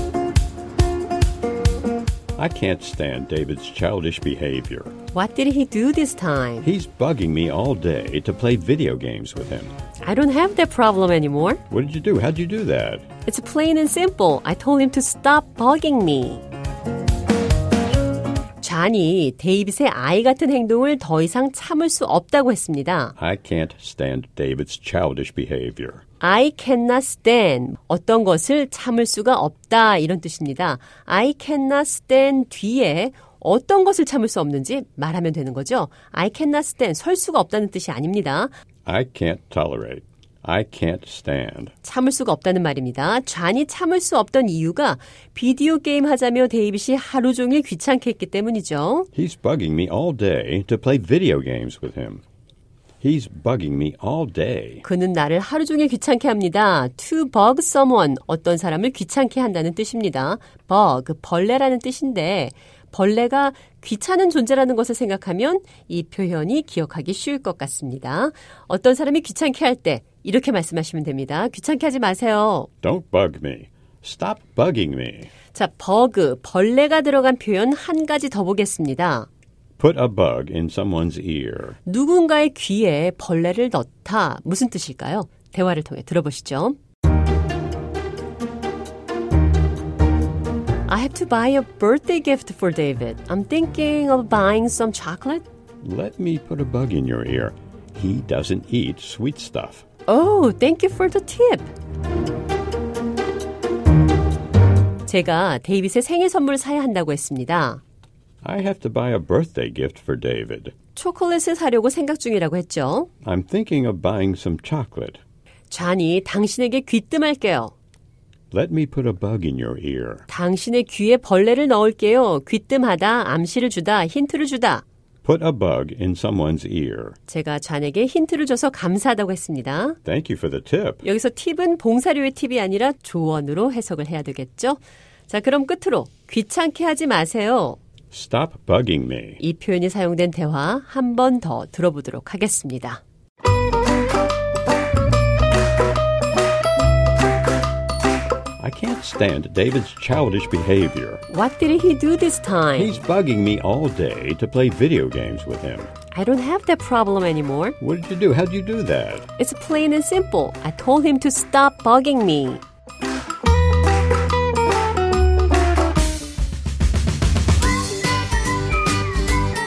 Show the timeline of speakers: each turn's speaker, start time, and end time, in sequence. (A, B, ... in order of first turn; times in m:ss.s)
0:02.4-0:05.0 A
0:05.1-0:06.7 B
0:06.6-0:09.8 A
0:10.0-0:11.6 B
0:11.7-0:13.1 A
0:13.3-0:16.4 B
0:18.6-0:23.2 B
0:23.2-0:26.0 A
0:26.2-0:38.5 B
0:38.9-0:41.7 A
0:41.8-0:49.1 B
0:49.2-0:52.2 A
0:53.0-0:54.8 A
0:54.8-1:12.7 B
1:12.8-1:15.3 A
1:15.5-1:19.3 B
1:19.8-1:21.8 A
1:21.9-1:26.8 B
1:30.9-1:35.4 B
1:35.8-1:39.8 A
1:40.1-1:41.7 B
1:45.1-1:47.8 B
1:48.4-1:50.7 A
1:51.0-1:53.1 B
1:53.2-1:55.2 A
1:55.7-1:57.7 B
1:58.5-2:00.2 A
2:00.3-2:04.8 B
2:05.2-2:07.2 A
2:07.3-2:10.0 B
2:10.1-2:11.0 A
2:11.0-2:17.8 B
2:18.1-2:19.4 A
2:19.4-2:23.0 B
2:28.6-2:31.2 A
2:31.3-2:33.0 B
2:32.8-2:35.9 A
2:36.1-2:37.8 B
2:37.8-2:39.3 A
2:39.4-2:42.6 B